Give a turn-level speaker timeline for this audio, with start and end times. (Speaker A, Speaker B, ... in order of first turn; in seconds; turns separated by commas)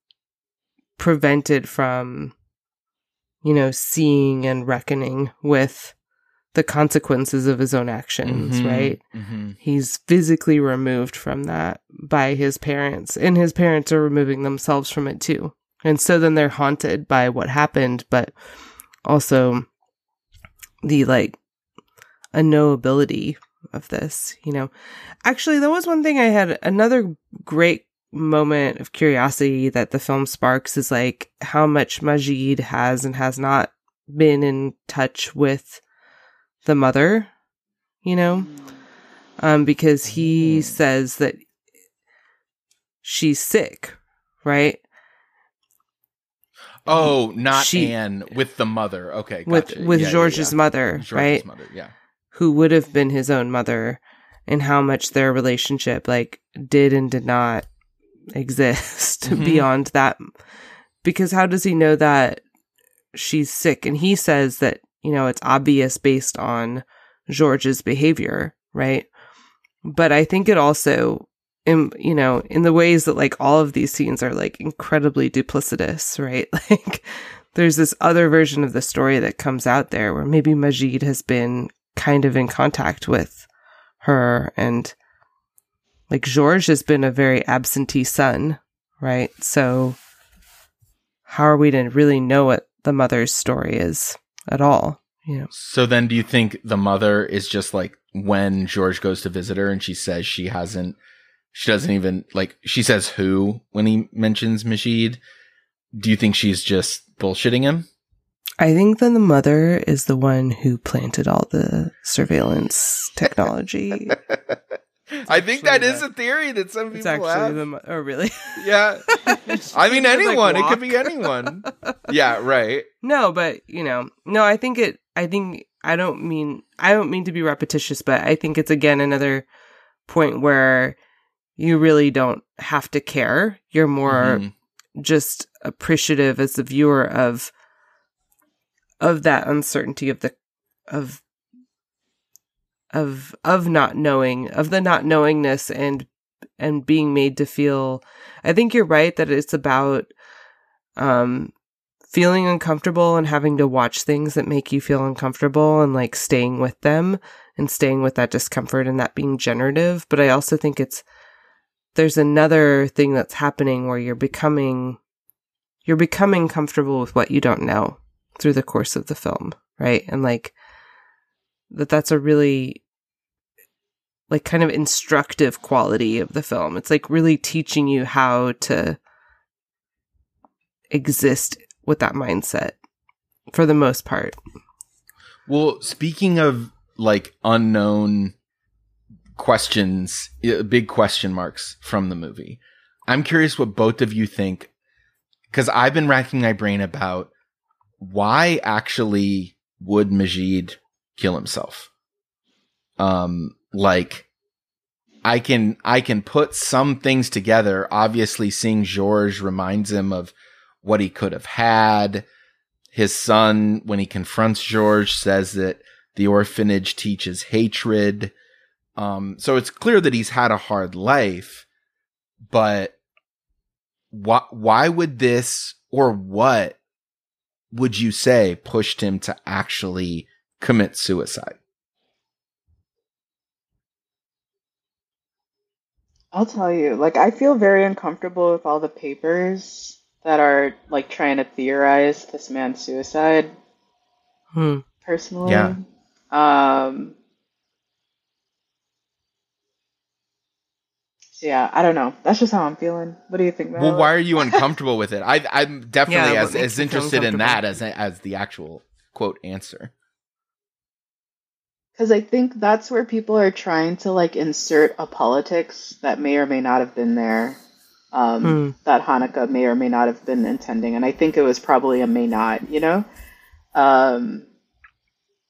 Speaker A: 1.0-2.3, Speaker A: 3.4-5.9, Speaker A: 6.5-9.0, Speaker B: 8.2-9.6, Speaker A: 9.6-18.3, Speaker A: 19.0-19.7, Speaker A: 20.8-21.4, Speaker A: 22.3-24.7, Speaker A: 25.2-35.8, Speaker A: 36.6-37.3, Speaker A: 38.0-38.5, Speaker C: 38.4-38.7, Speaker A: 39.4-41.4, Speaker B: 40.2-40.7, Speaker A: 43.0-44.8, Speaker B: 46.9-51.9, Speaker A: 46.9-47.9, Speaker A: 49.5-51.4, Speaker A: 52.3-57.6, Speaker A: 58.3-60.3, Speaker B: 59.2-59.7, Speaker A: 61.0-62.4, Speaker A: 63.1-69.1, Speaker A: 69.8-83.4, Speaker A: 84.0-84.9, Speaker A: 86.1-90.0, Speaker A: 91.3-95.5, Speaker B: 95.5-101.0, Speaker B: 101.5-105.2, Speaker B: 105.9-107.8, Speaker A: 108.6-114.2, Speaker B: 115.1-117.6, Speaker A: 115.3-116.0, Speaker A: 116.9-118.7, Speaker B: 118.6-122.9, Speaker A: 119.2-122.1, Speaker A: 123.0-129.4, Speaker A: 130.1-130.9, Speaker A: 131.6-134.4, Speaker B: 134.1-134.5, Speaker A: 134.9-137.5, Speaker A: 139.0-140.3, Speaker A: 140.9-141.2, Speaker A: 142.9-146.1, Speaker A: 146.6-150.1, Speaker A: 151.0-151.5, Speaker A: 152.1-161.0, Speaker A: 161.9-165.0, Speaker A: 165.8-170.5, Speaker A: 171.7-172.8, Speaker A: 174.3-179.0, Speaker A: 180.9-182.8, Speaker A: 183.5-184.4, Speaker B: 185.5-188.3, Speaker B: 189.4-194.7, Speaker B: 195.5-197.3, Speaker B: 198.0-201.9, Speaker B: 203.0-204.2, Speaker B: 205.2-212.2, Speaker B: 212.9-218.3, Speaker B: 219.0-221.6, Speaker B: 222.5-222.9, Speaker B: 224.1-226.8, Speaker B: 227.7-231.6, Speaker C: 236.3-243.5, Speaker A: 244.5-244.8, Speaker C: 245.0-247.1, Speaker B: 245.4-245.8, Speaker C: 251.4-254.6, Speaker B: 253.8-259.9, Speaker A: 256.1-257.6, Speaker C: 262.0-267.6, Speaker C: 268.1-273.1, Speaker A: 268.4-268.7, Speaker C: 273.7-274.4